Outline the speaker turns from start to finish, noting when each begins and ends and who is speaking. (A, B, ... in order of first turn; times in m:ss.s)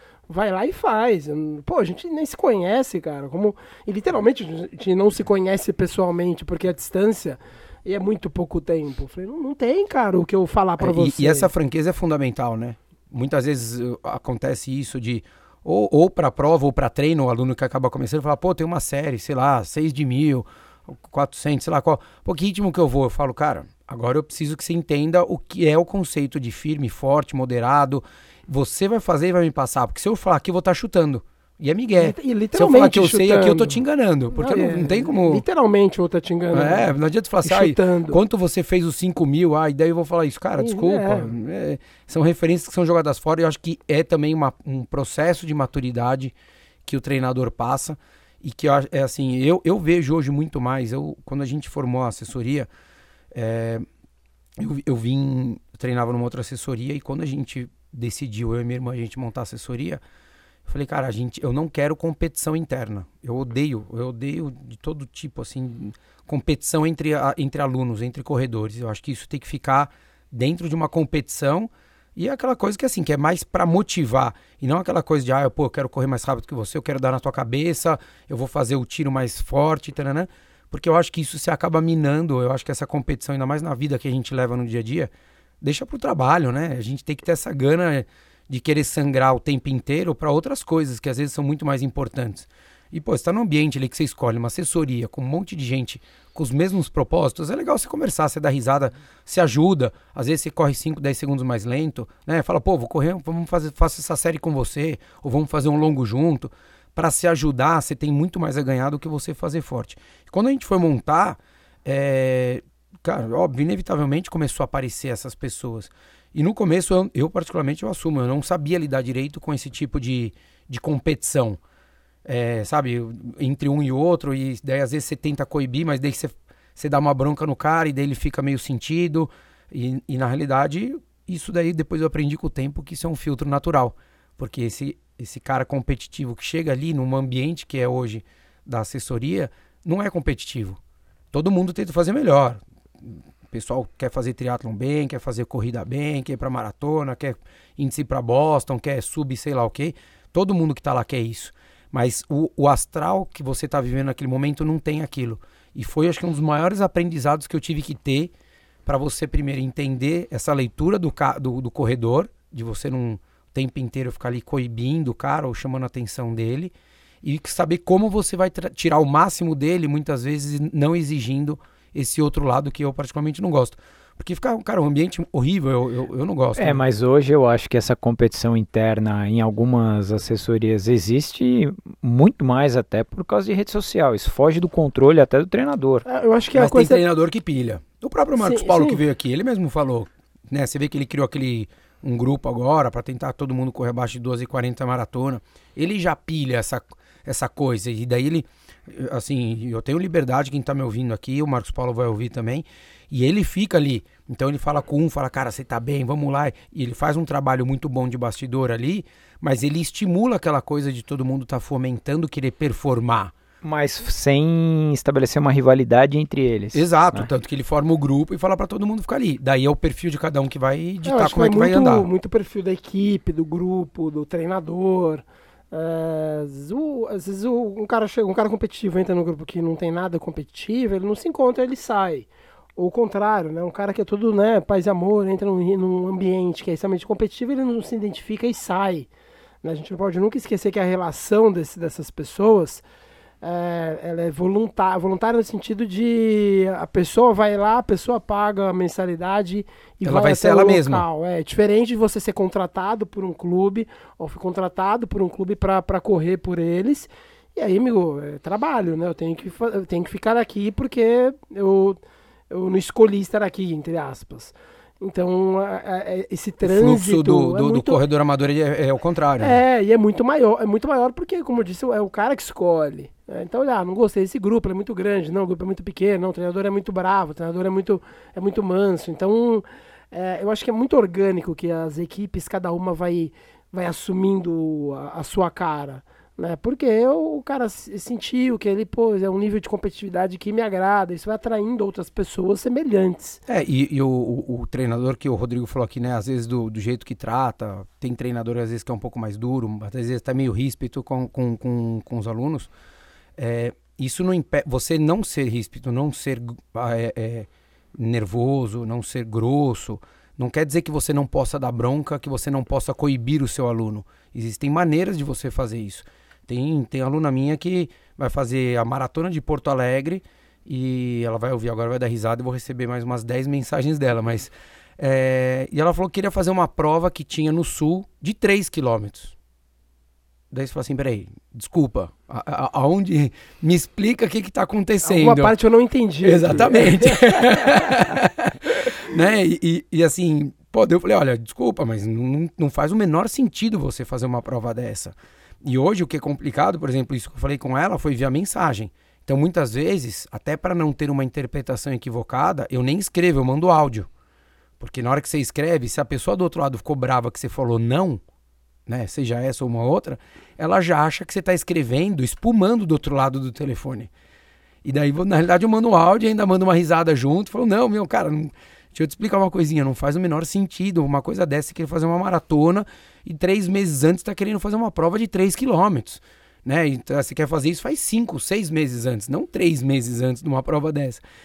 0:00.3-0:11.5 A
0:10.8-0:35.4 B
0:32.0-0:33.8 A
0:34.3-0:36.9 A
0:36.5-0:46.3 B
0:37.4-0:38.2 A
0:40.6-0:41.3 A
0:46.8-0:52.7 B
0:53.3-0:53.8 B
0:54.6-1:00.0 B
1:00.6-2:01.6 B
2:02.2-2:20.8 B
2:21.3-2:38.3 B
2:38.8-2:56.8 B
2:56.6-3:06.0 C
3:06.0-3:07.0 A
3:06.5-3:33.3 B
3:08.4-3:09.0 A
3:33.6-3:37.3 C
3:36.7-3:42.1 B
3:41.0-3:59.1 A
3:59.6-4:02.8 A
4:03.4-4:28.0 A
4:10.0-4:11.0 B
4:26.6-4:29.6 B
4:29.4-4:53.4 A
4:53.5-5:02.7 B
5:03.4-5:29.3 B
5:30.5-5:35.5 B
5:35.0-5:38.0 A
5:36.2-5:54.1 B
5:54.8-5:58.2 B
5:58.9-6:04.1 B
6:04.8-6:21.2 B